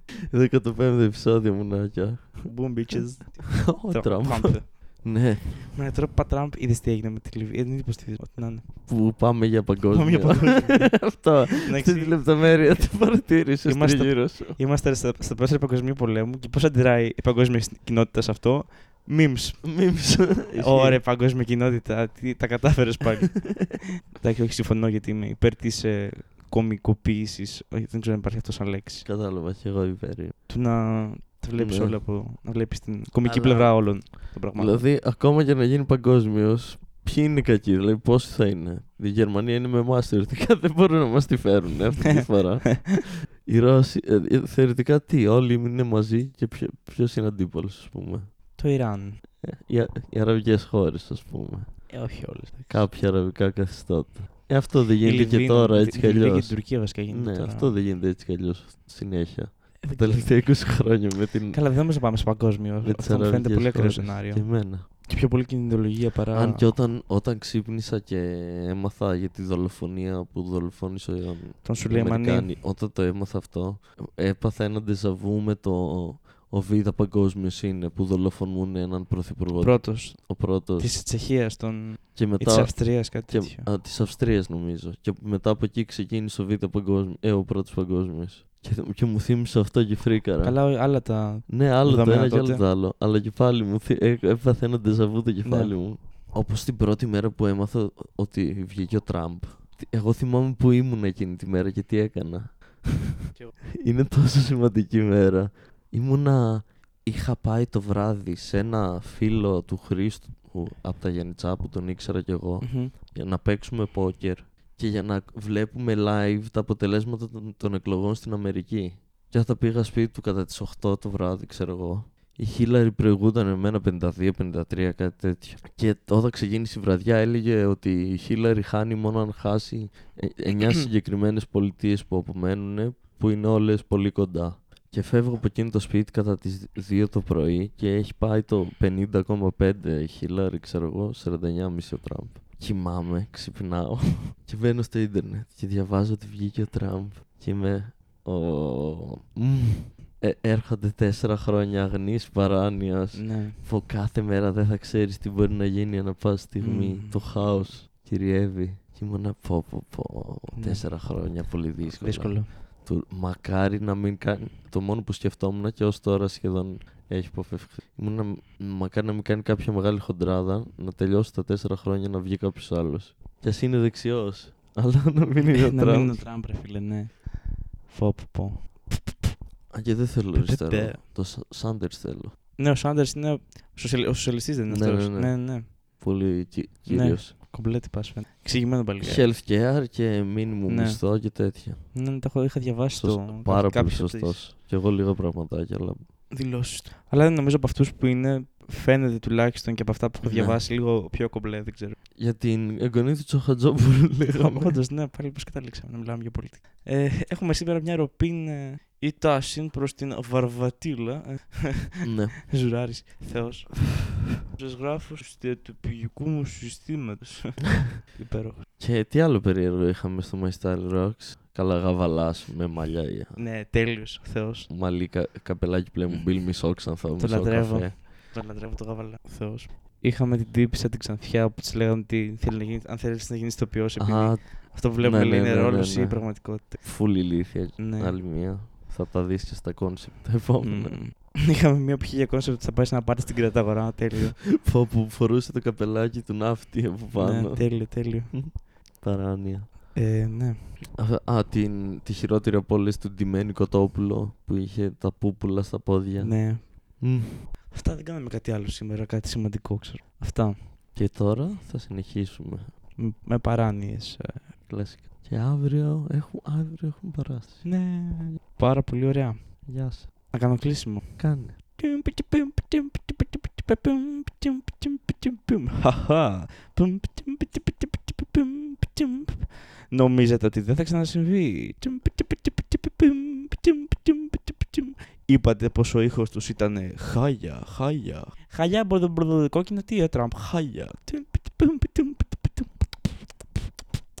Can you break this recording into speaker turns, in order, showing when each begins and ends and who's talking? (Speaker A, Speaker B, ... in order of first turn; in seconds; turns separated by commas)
Speaker A: 0.3-2.5, Speaker B: 2.4-8.9, Speaker A: 3.6-5.7, Speaker A: 8.8-14.6, Speaker B: 9.9-12.3, Speaker B: 13.6-19.8, Speaker A: 19.6-21.0, Speaker B: 20.5-29.1, Speaker A: 29.0-30.4, Speaker B: 30.5-34.9, Speaker A: 31.5-32.0, Speaker A: 33.2-48.3, Speaker B: 42.0-43.0, Speaker B: 48.5-49.2, Speaker A: 49.4-51.9, Speaker B: 51.9-52.9, Speaker A: 52.7-61.6, Speaker B: 55.0-57.8, Speaker B: 59.8-60.6, Speaker B: 61.5-66.7, Speaker A: 62.8-64.9, Speaker A: 66.3-80.9, Speaker B: 71.6-72.5, Speaker B: 79.5-83.7, Speaker A: 82.1-90.7, Speaker B: 90.4-92.6, Speaker A: 91.5-176.2, Speaker B: 95.4-95.8, Speaker B: 112.6-112.9, Speaker B: 130.5-130.9, Speaker B: 153.1-153.6, Speaker B: 156.6-157.4, Speaker B: 160.5-162.5, Speaker B: 175.4-177.3, Speaker B: 177.8-179.3, Speaker A: 179.7-182.3, Speaker B: 180.3-181.0, Speaker B: 182.6-185.8, Speaker A: 184.7-187.3, Speaker B: 186.9-189.3, Speaker A: 189.0-191.9, Speaker B: 190.7-191.0, Speaker B: 191.9-194.4, Speaker A: 192.9-196.1, Speaker B: 196.3-202.0, Speaker A: 200.2-200.6, Speaker A: 202.2-204.8, Speaker B: 204.3-213.9, Speaker A: 212.0-212.4, Speaker B: 214.5-218.6, Speaker A: 218.8-223.4, Speaker B: 223.3-224.7, Speaker A: 224.7-228.0, Speaker B: 226.1-226.4, Speaker B: 227.1-236.9, Speaker A: 234.0-241.0, Speaker B: 237.7-238.2, Speaker B: 240.6-244.4, Speaker A: 244.6-249.9, Speaker B: 247.1-248.4, Speaker B: 249.9-250.7, Speaker A: 250.9-257.5, Speaker B: 256.2-257.0, Speaker B: 257.7-260.6, Speaker A: 260.9-262.7, Speaker B: 263.0-264.5, Speaker A: 264.7-267.6, Speaker B: 267.6-269.5, Speaker A: 269.6-270.1, Speaker B: 270.3-293.6, Speaker A: 271.2-271.5